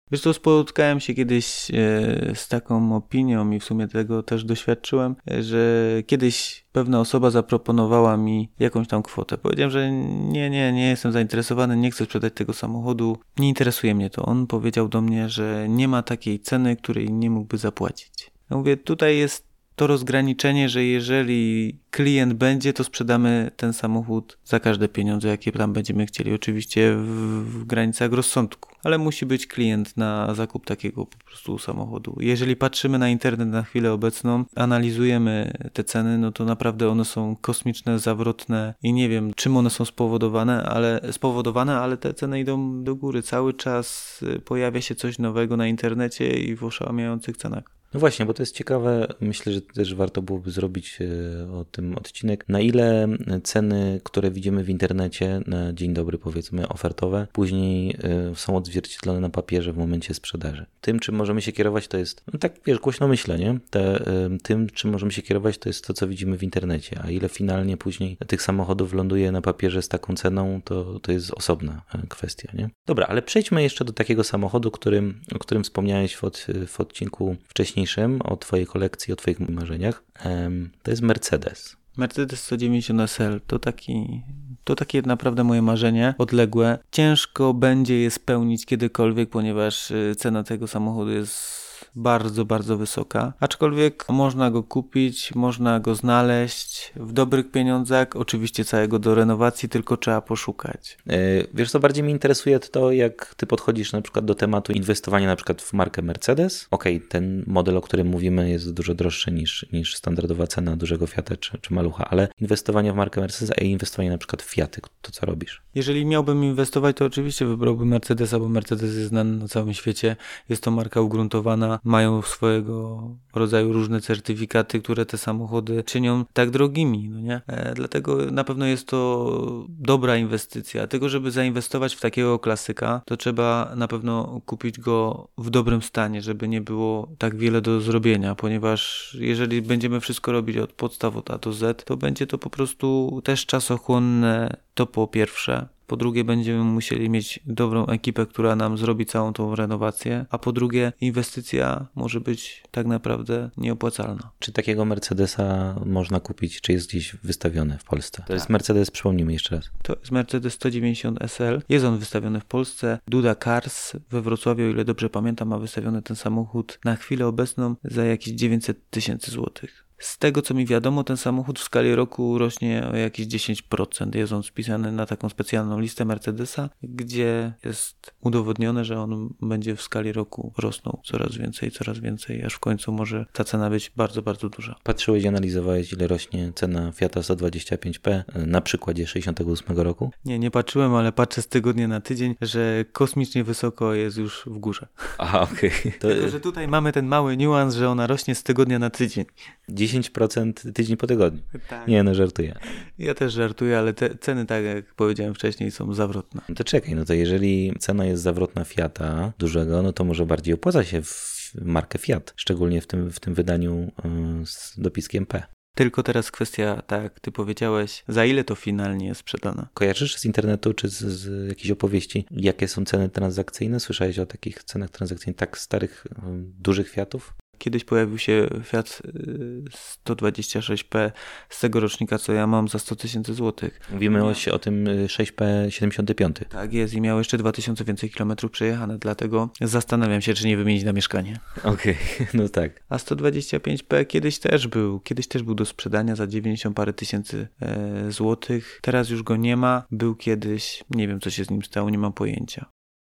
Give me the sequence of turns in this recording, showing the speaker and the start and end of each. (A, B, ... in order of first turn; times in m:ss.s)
0:00.1-0:47.7 A
0:47.9-1:21.8 B
1:22.0-1:41.0 A
1:41.1-1:55.6 B
1:55.8-2:34.3 A
2:34.4-2:39.7 B
2:39.8-3:04.8 A
3:04.8-3:10.1 B
3:10.2-3:15.2 A
3:15.2-3:16.4 B
3:16.0-3:19.4 A
3:19.7-3:22.6 B
3:21.5-3:22.0 A
3:22.6-3:26.5 A
3:26.5-3:35.5 B
3:35.8-3:39.7 A
3:39.8-3:47.3 B
3:47.6-3:54.4 A
3:53.9-3:56.5 B
3:56.5-4:01.4 A
4:01.6-4:02.8 B
4:02.9-4:12.7 A